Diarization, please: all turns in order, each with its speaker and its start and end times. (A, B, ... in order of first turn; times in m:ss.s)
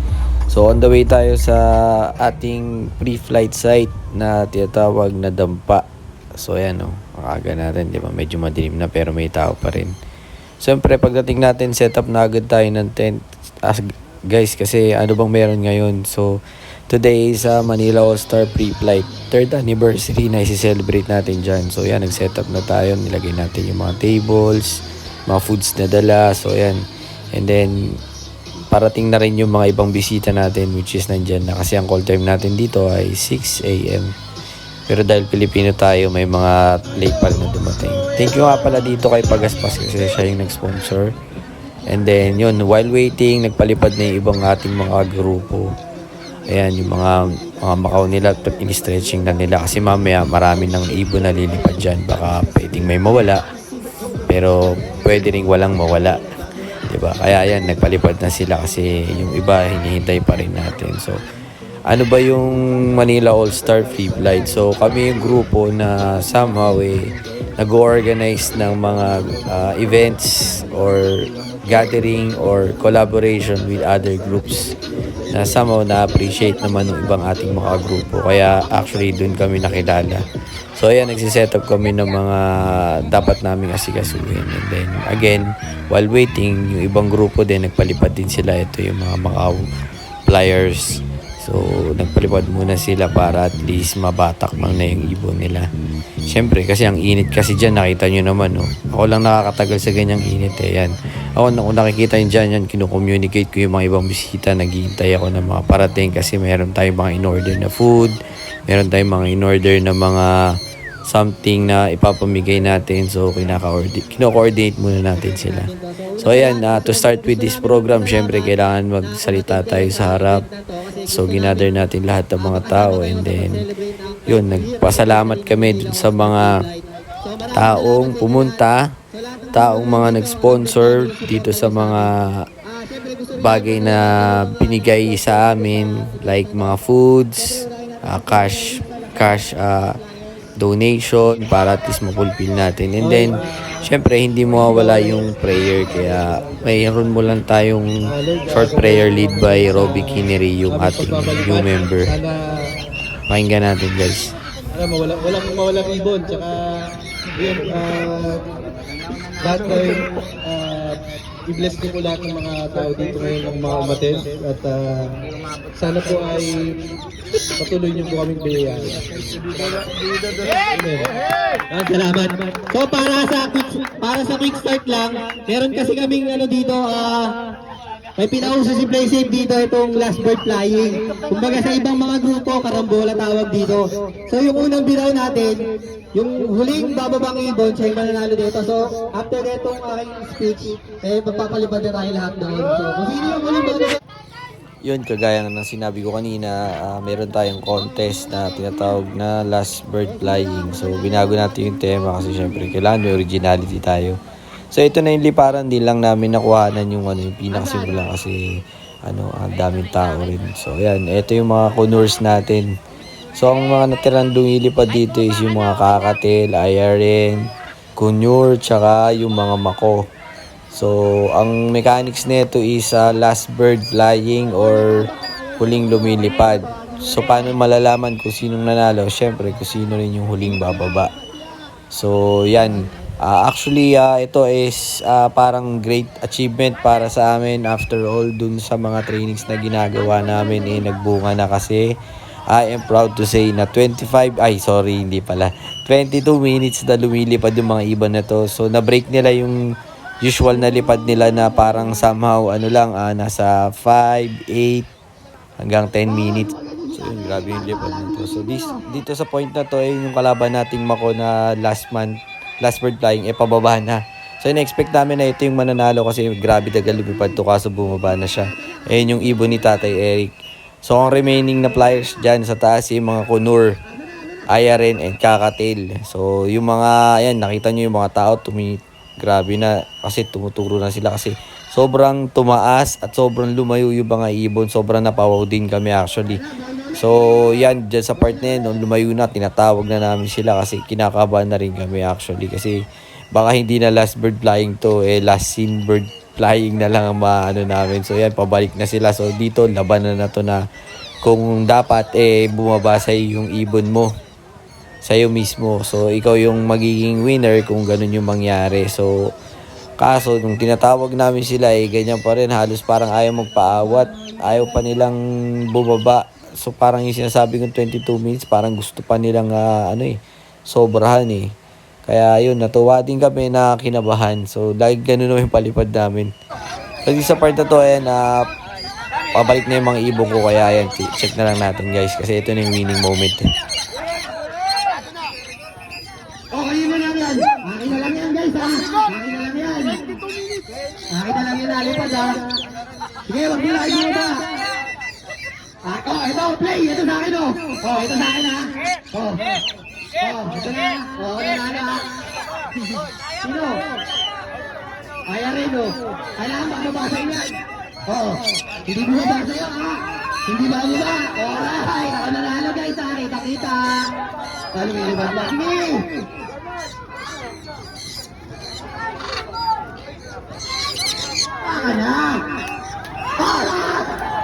0:00.5-0:05.8 A
0:06.4-0:09.9 A
0:10.6-0:28.0 A
0:28.7-0:34.1 A
0:34.9-0:41.1 A
0:41.9-0:45.7 A
0:46.5-0:53.4 A
0:54.2-0:56.2 A
0:56.9-1:01.2 A
1:01.9-1:14.7 A
1:15.3-1:20.2 A
1:20.8-1:29.6 A
1:30.3-1:35.6 A
1:36.3-2:00.4 A
1:55.9-1:58.6 B
1:59.2-2:01.7 B
2:01.0-2:03.6 A
2:02.5-2:08.5 B
2:04.2-2:06.6 A
2:07.5-2:09.0 A
2:09.2-2:11.9 B
2:09.5-2:12.5 A
2:12.7-2:14.0 B
2:13.3-2:20.0 A
2:20.6-2:27.9 A
2:23.0-2:23.5 C
2:24.5-2:26.6 C
2:28.1-2:32.4 C
2:28.5-2:32.1 A
2:33.3-2:34.3 A
2:34.7-2:36.6 C
2:37.3-2:38.5 C
2:39.4-2:45.2 C
2:45.7-2:46.9 C
2:47.6-2:51.2 C
2:51.7-2:57.4 B
2:58.2-3:14.0 B
3:14.8-3:24.2 A
3:24.7-3:28.4 A
3:29.0-3:32.7 A
3:33.4-3:37.4 A
3:38.0-3:40.0 A
3:40.7-3:45.1 A
3:45.6-3:51.1 A
3:51.9-4:01.8 A
4:02.5-4:09.6 A
4:10.2-4:14.9 A
4:15.6-4:30.3 A
4:30.8-4:33.7 A
4:34.5-4:52.8 A
4:53.3-5:00.6 A
5:01.2-5:04.1 A
5:05.0-5:09.1 A
5:10.0-5:15.2 A
5:15.7-5:20.2 A
5:20.7-5:21.5 A
5:22.0-5:26.3 A
5:27.0-5:28.4 A
5:29.3-5:33.4 A
5:36.5-5:40.0 B
5:41.1-5:42.5 B
5:43.3-5:44.6 B
5:45.8-5:49.6 B
5:50.2-5:52.1 B
5:53.4-5:53.8 B
5:55.3-6:04.2 B
6:04.7-6:06.2 B
6:11.6-6:12.4 B
6:13.4-6:14.0 B